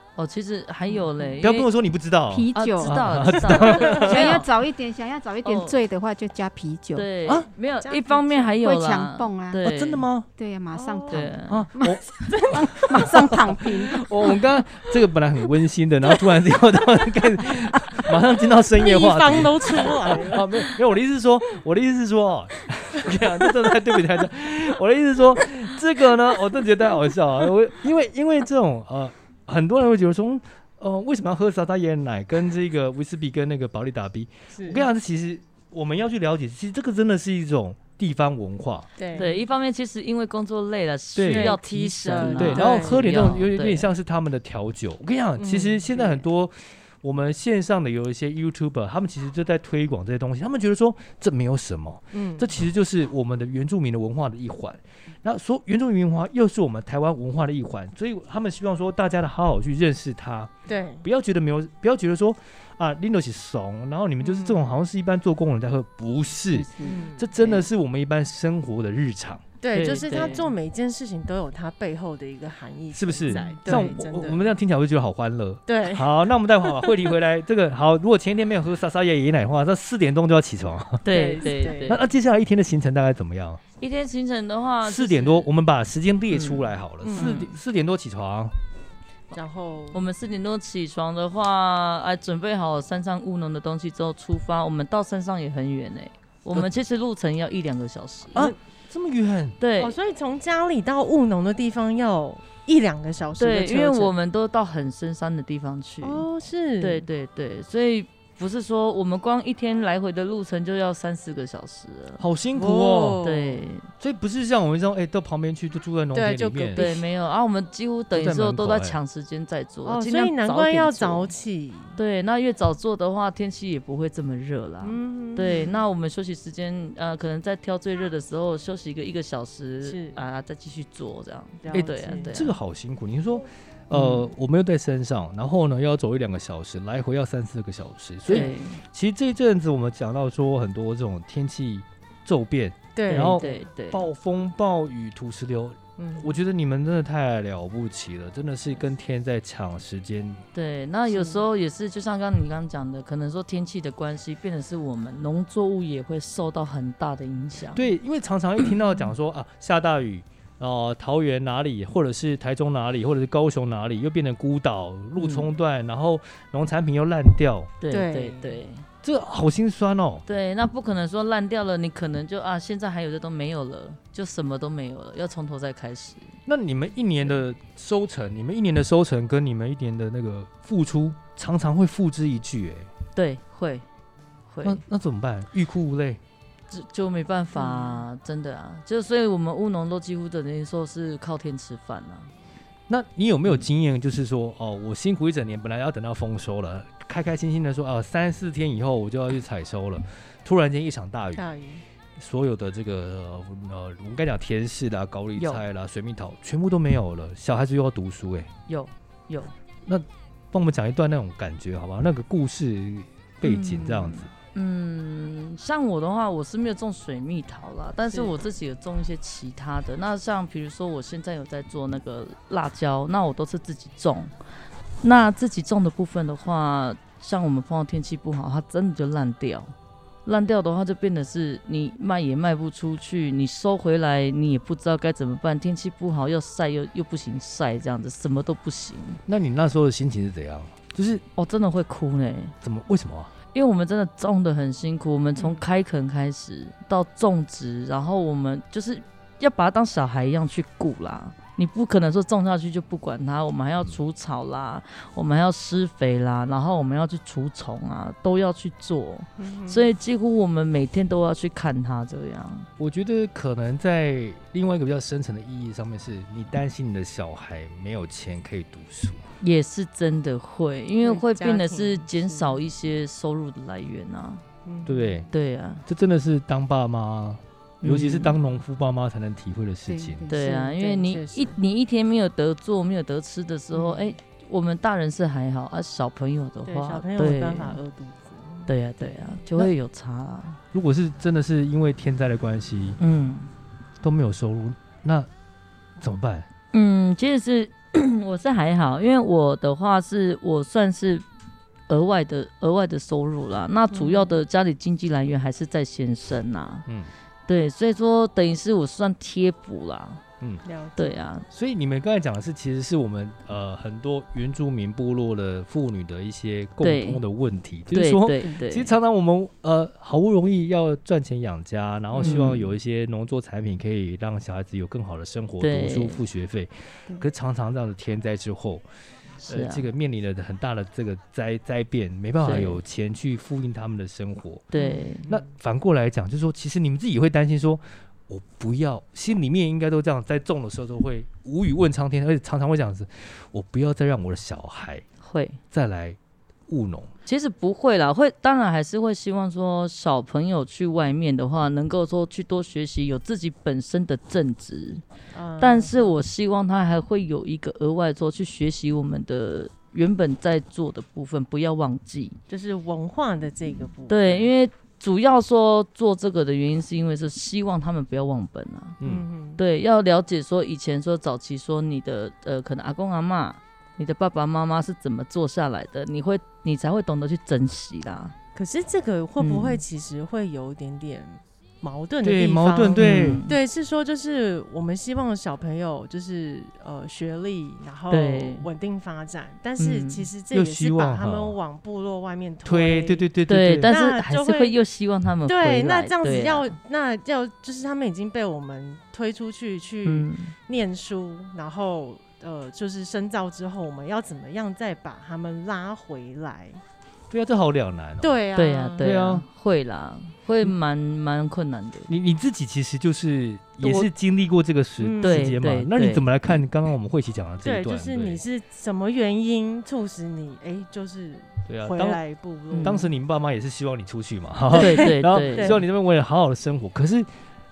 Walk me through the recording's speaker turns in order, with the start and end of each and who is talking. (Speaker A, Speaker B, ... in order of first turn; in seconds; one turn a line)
Speaker A: 0.1-1.7
Speaker B: 0.9-1.4
Speaker C: 1.4-4.4
Speaker D: 2.3-7.1
Speaker A: 2.5-4.5
Speaker B: 4.0-4.2
Speaker A: 5.4-5.8
Speaker A: 6.9-10.1
Speaker B: 7.8-8.6
Speaker D: 8.6-9.6
Speaker C: 9.6-10.3
Speaker D: 10.4-14.3
Speaker B: 10.7-11.3
Speaker A: 11.1-11.6
Speaker C: 11.5-38.9
Speaker B: 12.3-13.1
Speaker B: 18.7-20.8
Speaker B: 23.1-23.4
Speaker B: 34.5-34.9
Speaker B: 39.0-39.4
Speaker A: 39.1-43.9
Speaker C: 41.1-41.6
Speaker B: 41.2-43.2
Speaker C: 42.1-60.5
Speaker B: 45.4-46.2
Speaker B: 52.1-52.5
Speaker B: 60.7-61.0
Speaker C: 61.0-69.4
Speaker B: 64.2-64.7
Speaker D: 66.5-67.0
Speaker B: 66.8-67.7
Speaker B: 69.6-74.5
Speaker A: 69.7-70.5
Speaker C: 72.9-81.1
Speaker A: 73.3-73.9
Speaker B: 75.7-77.1
Speaker A: 81.0-82.0
Speaker B: 81.1-82.0
Speaker C: 81.9-83.6
Speaker A: 83.8-85.5
Speaker C: 84.8-88.6
Speaker A: 86.3-87.6
Speaker B: 87.0-87.4
Speaker B: 89.3-90.0
Speaker A: 89.9-98.5
Speaker C: 98.3-99.6
Speaker A: 99.6-99.9
Speaker B: 99.8-104.1
Speaker A: 103.4-106.3
Speaker B: 106.0-107.1
Speaker A: 106.8-112.2
Speaker C: 112.2-113.2
Speaker B: 112.5-113.6
Speaker A: 113.2-113.9
Speaker C: 114.0-116.8
Speaker B: 116.1-117.0
Speaker A: 116.8-121.3
Speaker C: 118.1-119.0
Speaker B: 119.8-122.0
Speaker A: 122.0-132.5
Speaker B: 124.8-125.8
Speaker B: 129.8-130.2
Speaker B: 131.6-132.3
Speaker C: 132.2-150.4
Speaker A: 133.9-134.3
Speaker B: 138.3-138.5
Speaker A: 138.3-138.8
Speaker B: 143.0-143.6
Speaker A: 143.1-144.1
Speaker B: 146.0-146.3
Speaker A: 150.5-157.8
Speaker B: 151.1-151.4
Speaker C: 157.8-167.7
Speaker A: 165.2-165.5
Speaker A: 167.8-168.8
Speaker B: 167.9-168.6
Speaker C: 169.0-170.2
Speaker A: 170.3-176.4
Speaker C: 176.5-182.9
Speaker A: 183.1-183.8
Speaker A: 184.5-184.8
Speaker C: 184.6-186.2
Speaker A: 186.7-192.3
Speaker B: 187.6-188.1
Speaker C: 192.9-201.4
Speaker B: 201.3-201.8
Speaker C: 202.2-208.5
Speaker A: 205.4-205.6
Speaker A: 208.7-209.5
Speaker C: 209.9-214.3
Speaker A: 213.4-224.3
Speaker A: 225.0-229.7
Speaker A: 230.2-239.2
Speaker C: 239.3-241.2
Speaker A: 241.4-242.6
Speaker C: 242.6-243.3
Speaker A: 243.5-262.7
Speaker B: 245.4-245.6
Speaker B: 259.4-259.9
Speaker C: 262.8-269.2
Speaker A: 269.4-274.4
Speaker B: 271.0-272.6
Speaker B: 274.6-275.2
Speaker C: 274.9-275.3
Speaker A: 275.3-275.8
Speaker C: 275.9-280.2
Speaker A: 277.8-278.4
Speaker D: 279.9-280.4
Speaker A: 280.3-287.8
Speaker B: 280.3-281.6
Speaker B: 283.7-284.1
Speaker B: 286.6-289.4
Speaker A: 288.7-290.6
Speaker C: 290.7-293.0
Speaker A: 293.0-293.5
Speaker C: 294.0-295.3
Speaker C: 296.0-296.5
Speaker A: 296.7-301.2
Speaker A: 301.9-306.9
Speaker B: 303.9-304.4
Speaker A: 307.5-310.2
Speaker B: 310.6-311.1
Speaker A: 311.0-311.5
Speaker C: 311.5-328.8
Speaker A: 316.8-317.2
Speaker A: 317.9-318.9
Speaker B: 322.1-322.5
Speaker A: 322.2-322.7
Speaker A: 325.6-326.2
Speaker A: 329.4-329.9
Speaker C: 329.5-334.7
Speaker A: 332.4-332.8
Speaker A: 334.7-335.2
Speaker B: 334.8-335.5
Speaker C: 335.3-345.1
Speaker A: 345.2-345.6
Speaker C: 345.7-347.1
Speaker A: 347.3-355.0
Speaker B: 355.3-356.0
Speaker A: 355.6-362.4
Speaker B: 362.5-364.5
Speaker A: 364.1-369.0
Speaker C: 369.0-369.3
Speaker B: 369.0-369.6
Speaker A: 369.6-378.4
Speaker B: 378.6-393.3
Speaker A: 379.4-379.8
Speaker C: 382.2-383.4
Speaker A: 383.0-383.6
Speaker A: 388.1-388.7
Speaker A: 389.8-390.3
Speaker C: 390.5-391.6
Speaker C: 392.6-393.9
Speaker A: 393.5-396.8
Speaker B: 393.9-394.8
Speaker B: 395.5-406.8
Speaker A: 400.1-400.5
Speaker C: 407.3-408.4
Speaker B: 408.2-409.1
Speaker A: 408.6-412.1
Speaker C: 409.0-409.5
Speaker C: 412.1-418.4
Speaker A: 413.8-414.1
Speaker B: 415.0-415.6
Speaker A: 415.2-416.3
Speaker B: 417.6-423.1
Speaker C: 421.7-422.2
Speaker A: 422.7-423.0
Speaker C: 422.8-427.3
Speaker B: 424.7-425.8
Speaker A: 424.7-425.8